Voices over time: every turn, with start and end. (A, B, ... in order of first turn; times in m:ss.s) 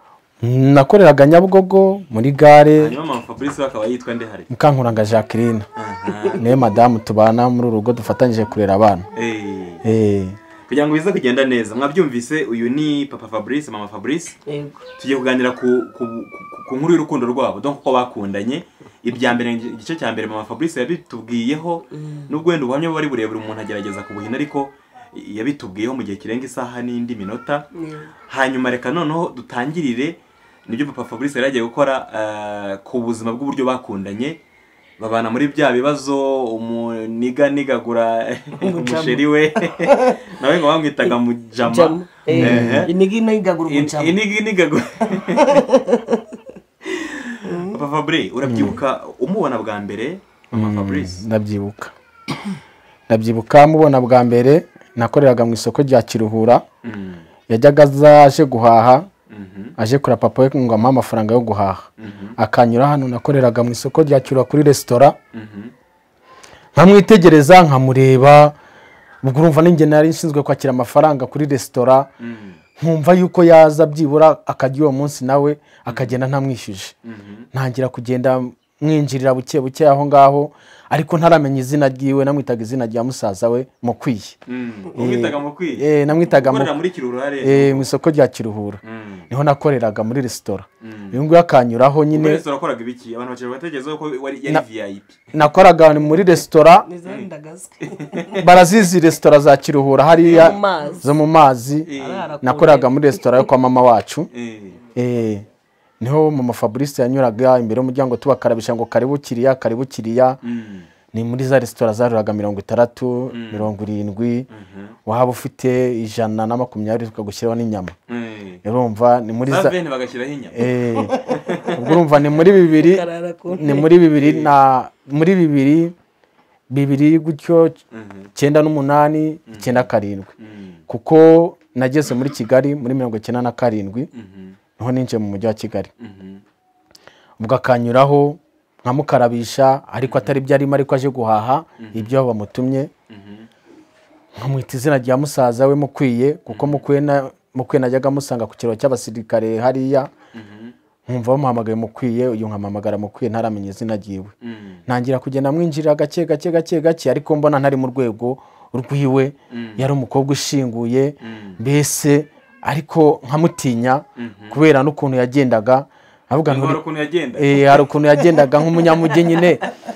0:00.4-0:03.0 A
0:02.8-0:04.5 B
0:04.5-0:05.7 A
0:05.8-0:06.4 B
0:06.1-0:06.4 C
0:06.4-0:09.0 A
0:09.1-0:09.8 B
0:09.8-0:10.4 A
0:10.7-0:14.4 B
0:14.4-0:14.8 C
0:15.0-0:27.7 B
0:21.9-0:22.3 C
0:27.8-0:28.1 C
0:28.3-0:34.4 B
0:35.0-0:42.9 B
0:38.6-0:40.3 C
0:41.6-0:44.2 C
0:42.3-0:42.9 A
0:43.7-0:45.6 B
0:45.1-0:46.2 C
0:46.8-0:51.2 B
0:47.4-0:47.8 C
0:48.4-0:48.7 A
0:50.5-0:51.9 A
0:53.1-0:56.6 A
0:56.8-0:57.2 B
0:57.5-0:59.1 A
0:59.3-0:59.7 B
0:59.8-1:05.2 A
1:02.0-1:02.4 B
1:05.3-1:05.7 B
1:06.8-1:08.5 A
1:09.2-1:12.1 A
1:12.2-1:12.6 B
1:12.8-1:16.9 A
1:15.9-1:16.1 B
1:17.0-1:17.5 B
1:17.5-1:24.4 A
1:24.4-1:27.9 B
1:24.9-1:26.7 A
1:27.4-1:32.4 A
1:28.8-1:29.3 B
1:30.8-1:31.2 B
1:32.1-1:35.3 B
1:35.3-1:36.9 A
1:36.8-1:38.6 C
1:37.8-1:38.4 B
1:38.4-1:41.9 A
1:40.2-1:40.6 B
1:40.2-1:41.1 C
1:41.8-1:42.3 B
1:42.0-1:43.4 C
1:42.4-1:44.3 A
1:44.3-1:44.8 B
1:44.9-1:45.4 A
1:46.0-1:50.4 A
1:50.4-1:50.9 B
1:51.1-1:54.5 A
1:53.3-1:53.7 B
1:54.5-1:55.0 B
1:55.0-1:58.0 A
1:58.1-1:58.6 B
1:58.6-1:59.8 A
1:59.4-2:00.7 B
2:00.5-2:01.2 A
2:00.9-2:03.9 C
2:01.2-2:01.8 B
2:01.7-2:06.0 A
2:04.2-2:04.5 B
2:06.7-2:07.8 A
2:07.9-2:08.3 B
2:08.3-2:10.3 A
2:09.5-2:10.8 B
2:10.9-2:14.1 A
2:14.1-2:14.6 B
2:14.8-2:15.9 A
2:16.0-2:16.4 B
2:17.4-2:22.9 A
2:20.0-2:20.3 B
2:21.8-2:22.1 B
2:23.1-2:23.5 B
2:24.4-2:30.1 A
2:26.5-2:26.8 B
2:30.3-2:30.7 B
2:31.1-2:34.3 A
2:34.4-2:34.8 B
2:34.9-2:46.8 A
2:39.5-2:39.9 B
2:41.2-2:41.6 B
2:44.2-2:44.6 B
2:46.4-2:47.9 B
2:47.3-2:49.6 A
2:49.0-2:49.4 C